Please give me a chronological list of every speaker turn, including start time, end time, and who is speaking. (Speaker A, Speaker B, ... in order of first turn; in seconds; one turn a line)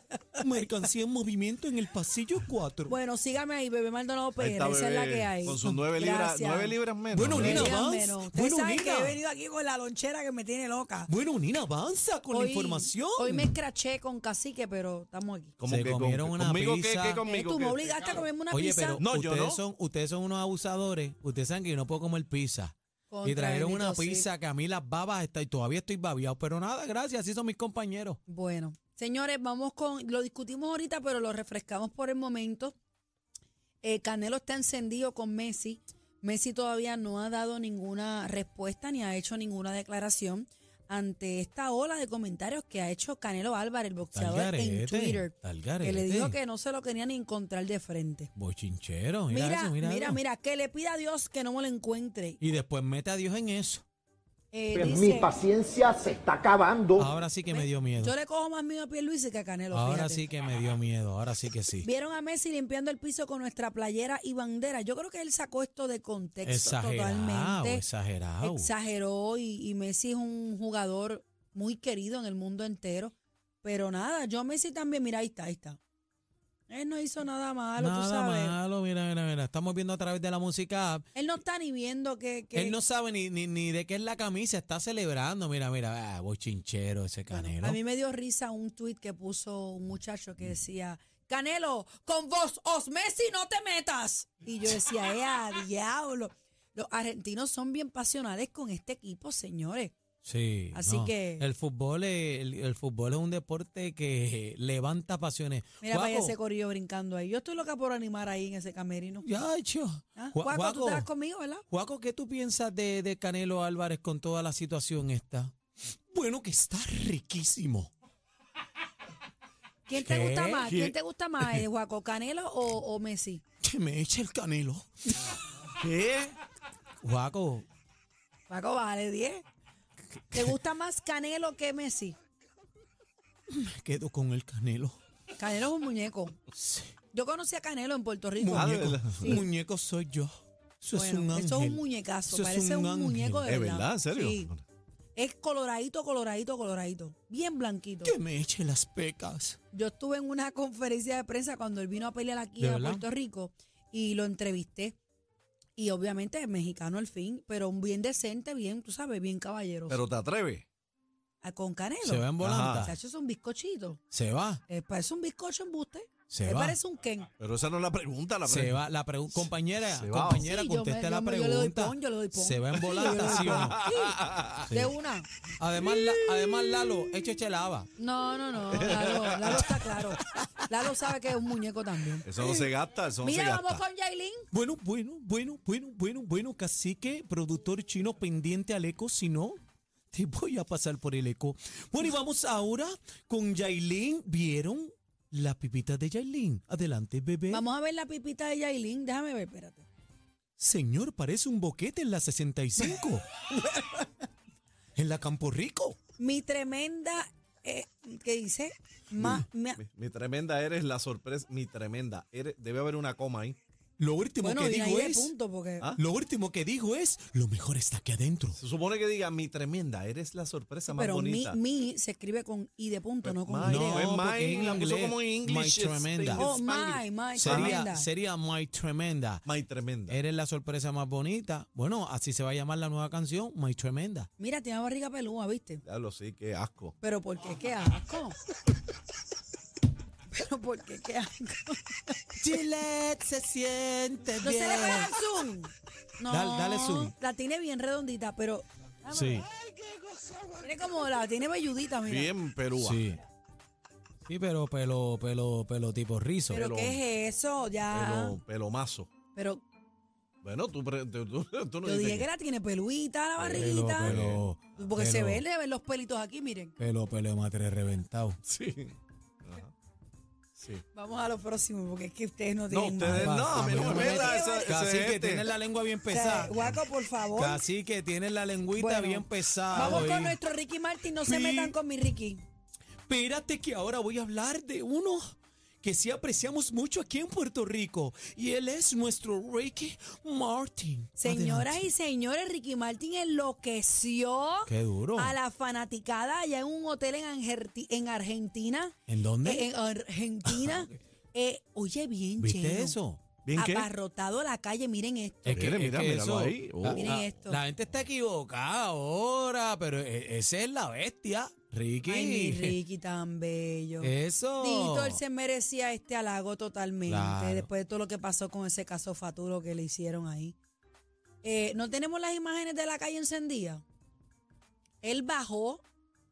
Speaker A: 0.3-3.0
Speaker B: 2.9-6.7
Speaker C: 4.4-7.7
Speaker A: 7.1-9.2
Speaker B: 7.3-11.1
Speaker A: 11.1-13.5
Speaker B: 12.3-15.5
Speaker C: 15.6-18.2
Speaker A: 15.6-17.2
Speaker B: 17.2-19.0
Speaker A: 18.5-28.2
Speaker C: 19.0-19.6
Speaker B: 23.1-24.3
Speaker B: 28.3-32.7
Speaker B: 33.8-48.3
Speaker A: 44.1-46.4
Speaker A: 48.4-50.2
Speaker B: 49.3-52.4
Speaker A: 52.4-53.8
Speaker B: 54.5-55.4
Speaker D: 54.8-57.1
Speaker A: 56.9-58.1
Speaker B: 57.5-60.2
Speaker A: 59.7-61.9
Speaker B: 61.8-67.8
Speaker A: 66.4-68.7
Speaker B: 68.4-75.8
Speaker B: 76.7-78.5
Speaker A: 77.8-81.1
Speaker B: 81.1-82.8
Speaker A: 82.5-87.8
Speaker B: 87.3-99.9
Speaker A: 100.2-106.3
Speaker B: 100.7-101.4
Speaker B: 105.8-109.3
Speaker A: 109.2-111.1
Speaker B: 110.2-111.6
Speaker A: 111.7-115.5
Speaker A: 116.1-117.9
Speaker B: 119.8-123.4
Speaker A: 120.0-120.7
Speaker C: 120.6-120.9
Speaker A: 123.6-125.3
Speaker C: 125.7-126.3
Speaker A: 127.0-127.6
Speaker B: 128.5-129.4
Speaker B: 130.3-132.2
Speaker A: 133.5-135.0
Speaker B: 135.3-136.4
Speaker A: 136.5-136.9
Speaker B: 137.1-139.4
Speaker A: 138.4-143.5
Speaker C: 138.5-139.4
Speaker B: 140.9-144.5
Speaker C: 143.4-144.6
Speaker B: 145.2-148.1
Speaker A: 148.0-149.6
Speaker B: 149.7-155.0
Speaker A: 152.6-153.0
Speaker B: 155.8-160.0
Speaker C: 159.9-160.6
Speaker B: 161.4-162.3
Speaker A: 162.0-163.0
Speaker C: 162.4-162.9
Speaker B: 162.8-164.0
Speaker A: 164.1-164.6
Speaker B: 164.7-167.3
Speaker A: 166.3-166.8
Speaker C: 167.4-168.8
Speaker A: 168.4-173.8
Speaker C: 169.3-170.5
Speaker B: 170.4-174.2
Speaker C: 172.8-174.7
Speaker A: 174.6-174.9
Speaker B: 174.7-175.3
Speaker A: 175.6-177.9
Speaker C: 175.9-176.9
Speaker B: 178.0-182.7
Speaker C: 178.7-179.8
Speaker C: 182.2-183.8
Speaker B: 183.2-184.4
Speaker A: 184.5-189.6
Speaker A: 190.1-197.6
Speaker B: 197.5-199.8
Speaker A: 200.6-203.3
Speaker A: 204.9-205.9
Speaker B: 206.2-209.8
Speaker C: 209.2-213.6
Speaker A: 214.0-215.3
Speaker B: 214.4-215.9
Speaker A: 215.9-218.6
Speaker C: 218.6-221.6
Speaker B: 220.9-224.1
Speaker C: 223.2-227.8
Speaker A: 223.6-226.5
Speaker B: 226.3-228.1
Speaker A: 227.3-229.4
Speaker C: 229.4-230.2
Speaker A: 230.1-234.3
Speaker B: 234.4-235.8
Speaker C: 235.8-236.9
Speaker B: 237.0-238.4
Speaker B: 240.3-242.2
Speaker A: 242.4-245.1
Speaker B: 244.4-249.4
Speaker A: 246.3-247.1
Speaker A: 249.1-249.5
Speaker B: 250.6-252.3
Speaker C: 252.1-253.0
Speaker A: 252.8-253.2
Speaker A: 254.2-256.6
Speaker B: 256.5-258.4
Speaker C: 256.5-257.0
Speaker C: 257.9-259.1
Speaker B: 259.3-259.6
Speaker C: 260.4-262.3
Speaker B: 261.8-264.2
Speaker C: 263.4-264.4
Speaker A: 263.5-265.4
Speaker B: 264.8-266.7
Speaker A: 266.8-268.4
Speaker C: 268.4-268.9
Speaker C: 269.4-269.7
Speaker C: 270.6-270.8
Speaker B: 270.9-274.8
Speaker C: 272.7-275.5
Speaker A: 273.1-276.7
Speaker B: 276.1-277.6
Speaker A: 277.4-280.4
Speaker B: 278.7-282.4
Speaker A: 281.2-281.7
Speaker A: 283.1-291.8
Speaker B: 291.2-303.0
Speaker A: 294.6-295.4
Speaker A: 299.1-299.7
Speaker A: 300.5-300.8
Speaker A: 302.4-303.2
Speaker C: 303.4-303.9
Speaker B: 303.5-305.6
Speaker A: 305.4-312.8
Speaker C: 305.5-307.3
Speaker B: 306.9-307.6
Speaker B: 312.0-320.6
Speaker A: 314.0-315.2
Speaker A: 317.1-317.7
Speaker B: 321.4-323.8
Speaker B: 325.0-325.8